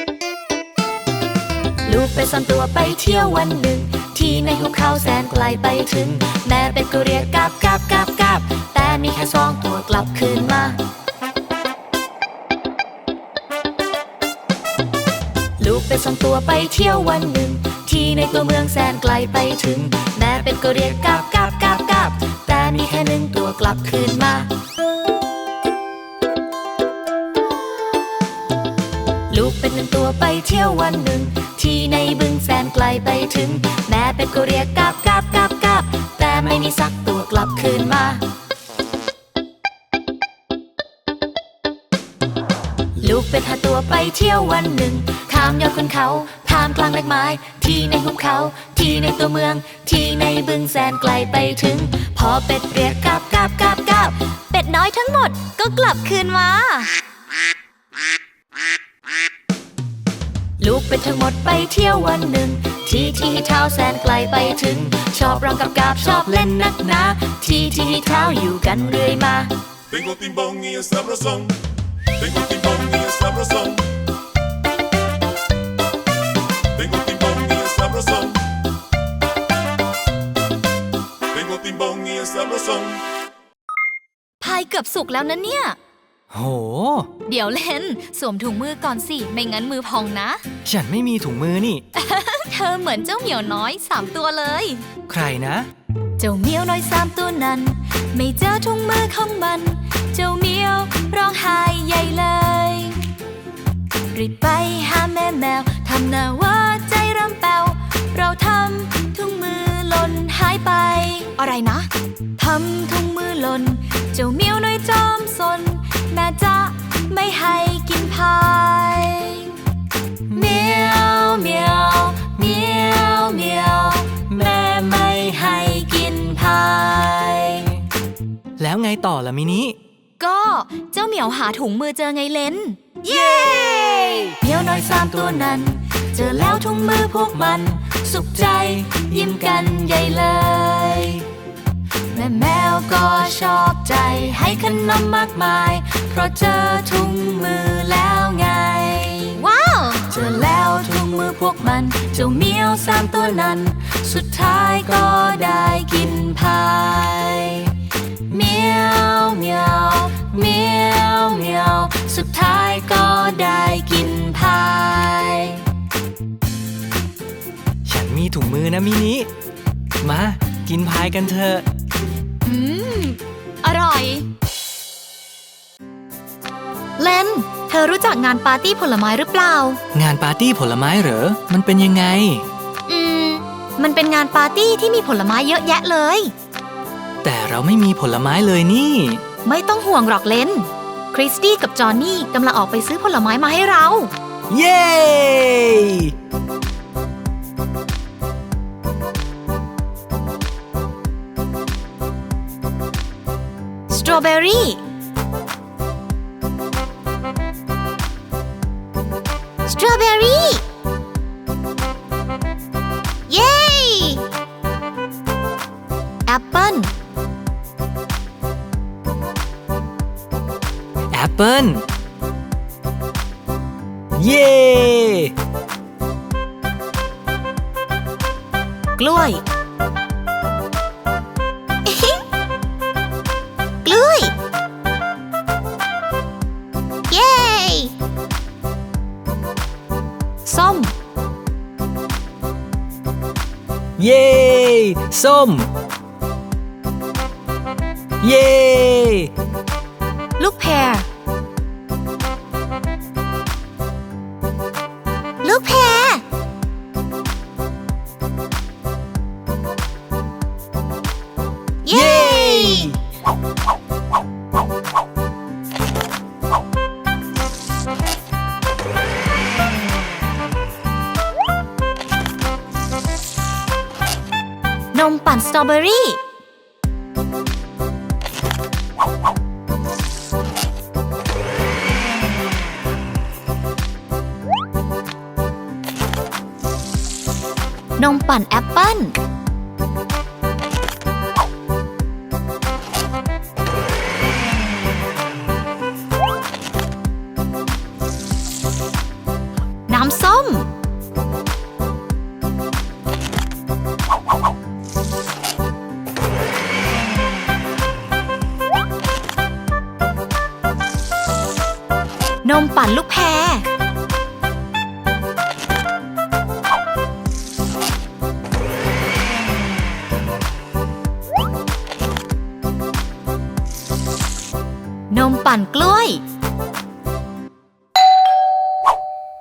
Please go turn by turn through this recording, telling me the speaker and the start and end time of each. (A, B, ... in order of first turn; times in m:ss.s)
0:01.8-0:10.8 A
0:15.6-0:24.5 A
0:29.3-0:38.2 A
0:43.0-0:57.0 A
1:00.6-1:09.5 A
1:09.9-1:11.6 B
1:12.2-1:13.9 B
1:16.7-1:18.4 B
1:21.3-1:23.0 B
1:24.4-1:25.8 A
1:26.3-1:27.1 C
1:27.2-1:30.4 A
1:30.6-1:31.8 C
1:31.9-1:34.8 A
1:35.1-1:35.7 C
1:36.2-1:43.0 A
1:44.1-1:59.6 A
2:00.3-2:07.8 A
2:08.6-2:09.8 C
2:10.2-2:21.3 A
2:13.0-2:14.3 C
2:22.1-2:37.8 A
2:38.3-2:45.6 A
2:47.8-2:49.3 C
2:50.0-2:51.6 C
2:52.4-2:54.3 A
2:57.0-2:59.8 A
2:59.9-3:02.4 C
3:02.9-3:06.3 A
3:07.2-3:09.2 C
3:09.4-3:14.1 A
3:14.5-3:16.1 C
3:23.9-3:24.8 A
3:29.6-3:30.6 A
3:33.3-3:34.2 A
3:36.3-3:36.9 A
3:41.1-3:41.8 C
3:44.1-3:45.3 C
3:49.0-3:49.4 A
3:51.8-3:52.2 A
3:53.8-3:54.3 A
3:57.1-3:57.9 A
4:00.4-4:00.9 A
4:04.0-4:05.7 C
4:08.2-4:09.3 C
4:10.4-4:11.0 A
4:15.4-4:16.2 A
4:21.8-4:22.9 A
4:21.9-4:23.0 C
4:34.9-4:36.2 A
4:48.0-4:49.2 A
4:59.9-5:00.7 A
5:12.4-5:13.7 A
5:25.1-5:26.2 A